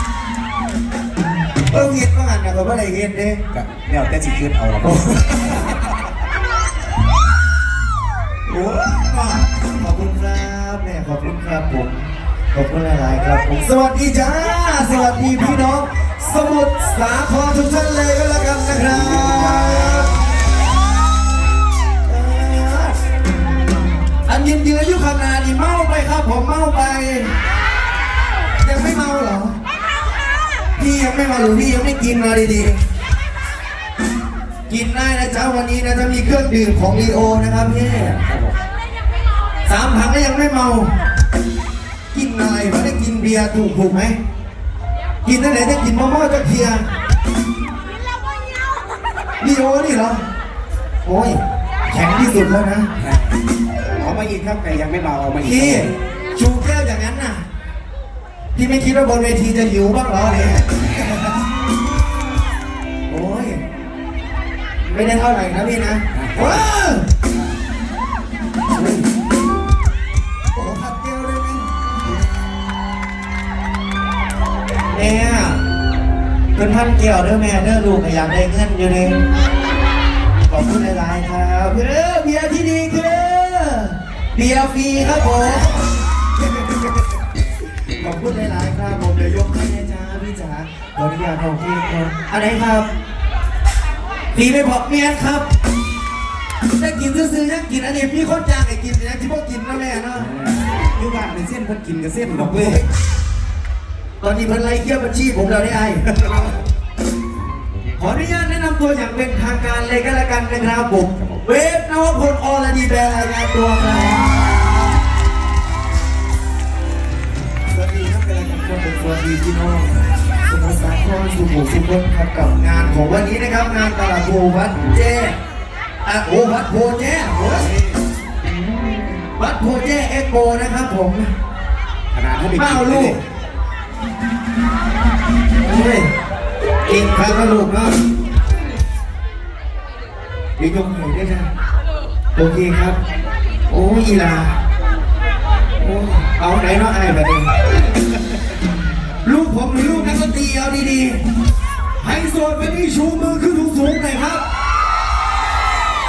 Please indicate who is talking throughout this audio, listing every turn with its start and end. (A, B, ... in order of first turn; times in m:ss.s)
0:01.6-0:03.4 A
0:03.5-0:05.7 B
0:08.4-0:20.2 A
0:18.8-0:20.1 B
0:22.0-0:23.0 A
0:24.3-0:27.3 A
0:28.6-0:29.6 A
0:30.8-0:32.8 A
0:34.7-0:38.2 A
0:37.8-0:38.6 B
0:39.6-0:40.9 A
0:42.1-0:44.2 A
0:45.2-0:46.8 A
0:49.4-0:50.2 A
0:51.0-0:52.9 A
0:53.0-0:53.3 B
0:54.0-0:55.9 B
0:55.4-0:57.4 A
0:58.5-1:01.2 A
1:03.1-1:03.6 A
1:04.8-1:07.1 A
1:06.1-1:06.7 B
1:10.5-1:11.7 A
1:14.9-1:15.6 A
1:16.5-1:19.2 A
1:20.5-1:26.9 A
1:28.0-1:32.9 A
1:34.3-1:35.4 A
1:36.8-1:40.3 A
1:40.2-1:42.8 B
1:42.3-1:42.9 A
1:44.2-1:46.0 A
1:46.1-1:46.4 B
1:48.0-1:54.5 A
1:57.7-1:59.9 A
2:00.4-2:05.4 A
2:06.0-2:07.7 A
2:08.5-2:11.3 A
2:12.1-2:13.2 B
2:12.6-2:13.2 A
2:15.6-2:16.1 A
2:16.8-2:18.0 A
2:20.6-2:21.5 A
2:22.3-2:23.0 A
2:23.7-2:24.5 A
2:25.8-2:27.5 A
2:29.2-2:31.2 A
2:32.0-2:34.4 A